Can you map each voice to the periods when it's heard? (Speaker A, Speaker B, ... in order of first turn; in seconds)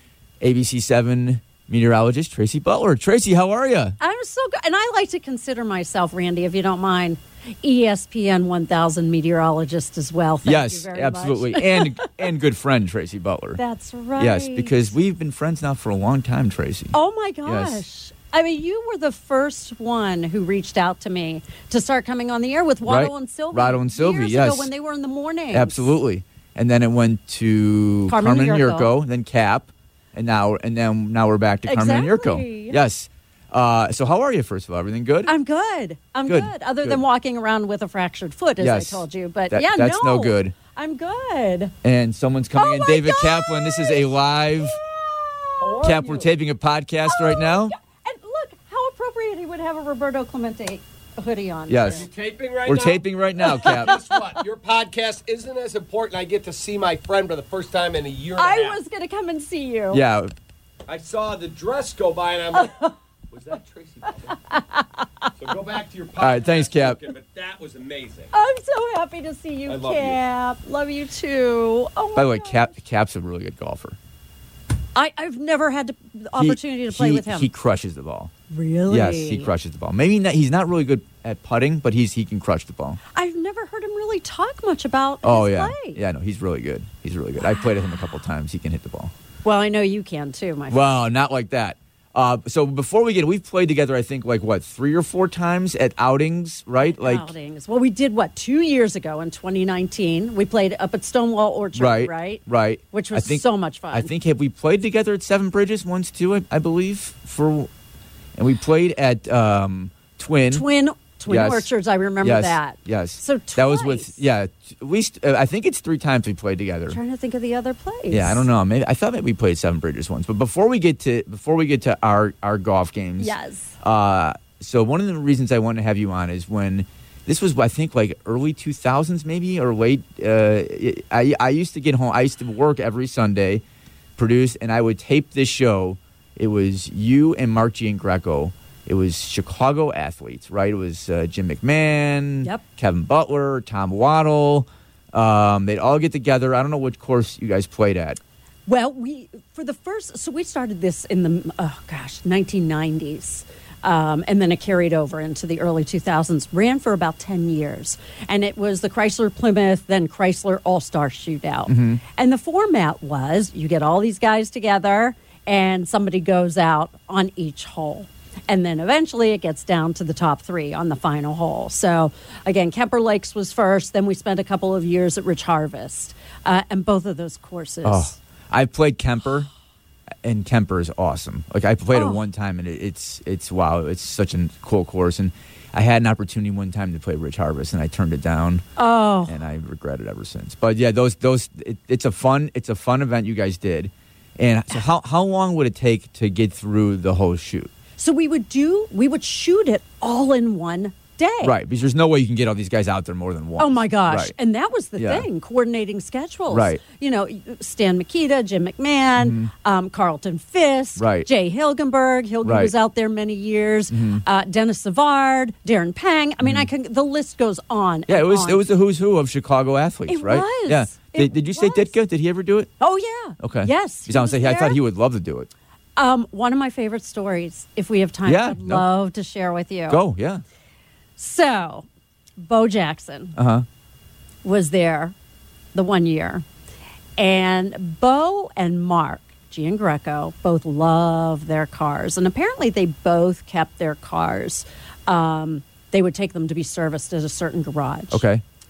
Speaker A: 0.4-4.0, 10.4-13.6, 14.2-17.8, 22.9-24.7, 25.5-35.3, 36.3-37.0, 38.6-40.5, 41.8-44.8, 45.8-47.8, 51.7-52.0, 52.6-54.0, 59.9-60.3, 66.2-67.0, 72.1-74.0, 76.4-78.3, 78.9-83.0, 85.2-89.1, 90.7-97.3, 101.8-107.7, 108.4-110.7, 111.3-111.7, 112.2-117.0, 118.1-133.6, 134.2-148.2, 161.7-162.0, 177.8-179.5, 180.2-188.7, 189.2-197.7, 201.4-204.3, 204.9-205.2, 206.5-206.8, 209.2-209.5, 211.0-211.3, 212.4-212.7, 213.9-214.2, 218.1-222.7, 223.4-225.5, 228.2-228.8, 229.9-230.4, 233.3-233.6, 248.1-248.4
Speaker B: 4.0-12.1, 13.6-14.9, 16.9-25.9, 28.1-28.9, 31.7-32.8, 35.3-41.8, 42.5-46.0, 47.0-52.0, 53.4-54.2, 58.4-60.0, 62.5-62.9, 64.5-65.3, 68.3-72.7, 75.0-77.5, 78.5-79.5, 83.1-86.0, 87.4-88.0, 89.4-90.9, 96.8-104.1, 110.5-114.2, 116.9-118.5, 123.2-123.7, 148.7-178.1, 181.9-182.2, 188.8-189.4, 198.0-201.6, 203.6-218.6, 220.1-221.9, 222.8-224.8, 225.9-230.0, 231.2-231.9, 232.4-233.3, 234.4-235.1, 235.7-236.4, 237.2-248.2
Speaker C: 45.6-46.3, 51.9-58.8, 60.9-62.8, 63.3-64.4, 65.4-68.3, 69.7-70.2